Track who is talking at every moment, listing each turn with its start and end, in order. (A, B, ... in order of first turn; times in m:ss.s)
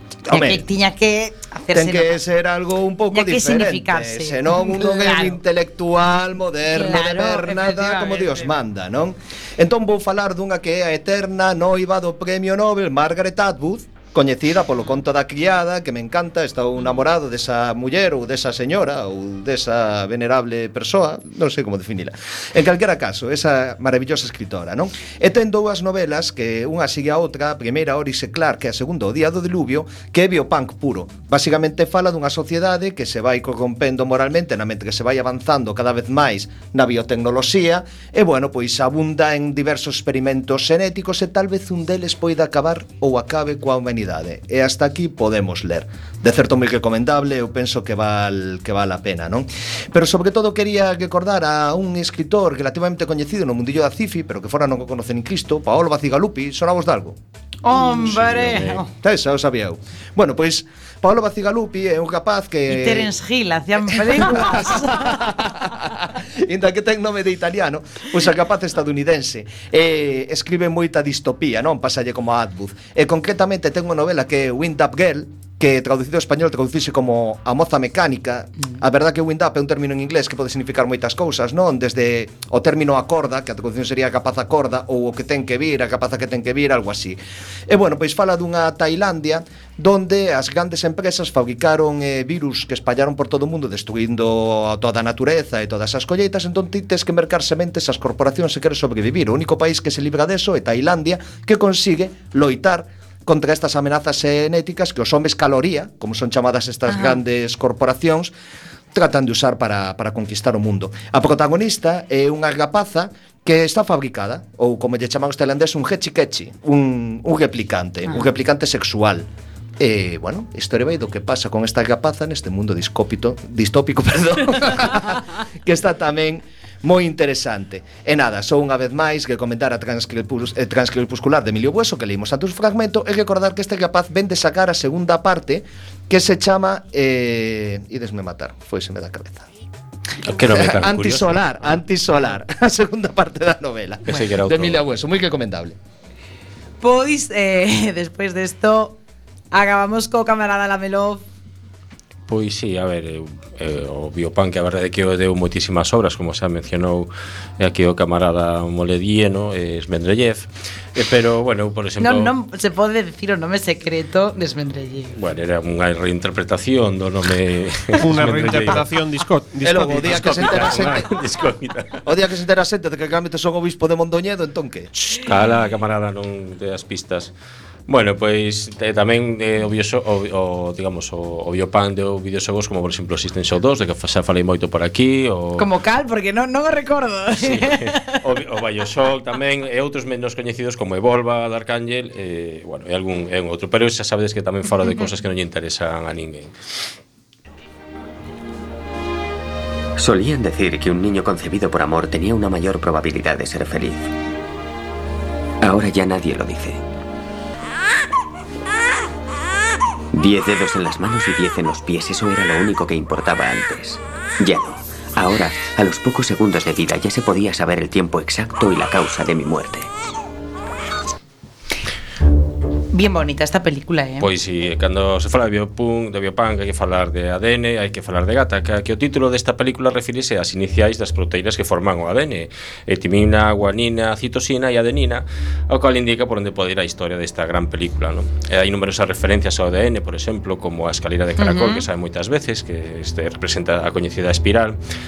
0:00.3-0:00.6 A
0:00.3-0:02.2 B
0:01.7-0:57.2 A
0:03.1-0:05.4 B
0:06.7-0:08.5 B
0:57.7-0:58.8 B
0:57.7-0:58.6 C
0:57.8-1:03.1 A
1:02.9-1:05.0 B
1:03.3-1:04.8 C
1:04.1-1:48.3 A
1:48.9-1:59.3 A
1:59.8-2:19.5 A
2:20.3-2:21.4 D
2:20.4-2:25.8 A
2:24.1-2:24.8 D
2:26.8-2:29.0 B
2:29.5-2:31.2 B
2:32.3-2:42.3 D
2:42.0-2:45.1 B
2:45.1-2:48.8 D
2:48.0-2:51.0 E
2:49.6-2:51.1 A
2:50.0-2:52.0 D
2:52.0-2:54.9 A
2:55.0-2:57.3 D
2:57.9-3:05.7 D
3:05.6-3:08.1 B
3:07.4-3:16.5 D
3:20.0-3:24.0 F
3:25.6-3:26.8 F
3:30.1-3:39.9 F
3:42.9-3:44.2 C
3:44.2-4:04.8 D
4:01.4-4:01.8 B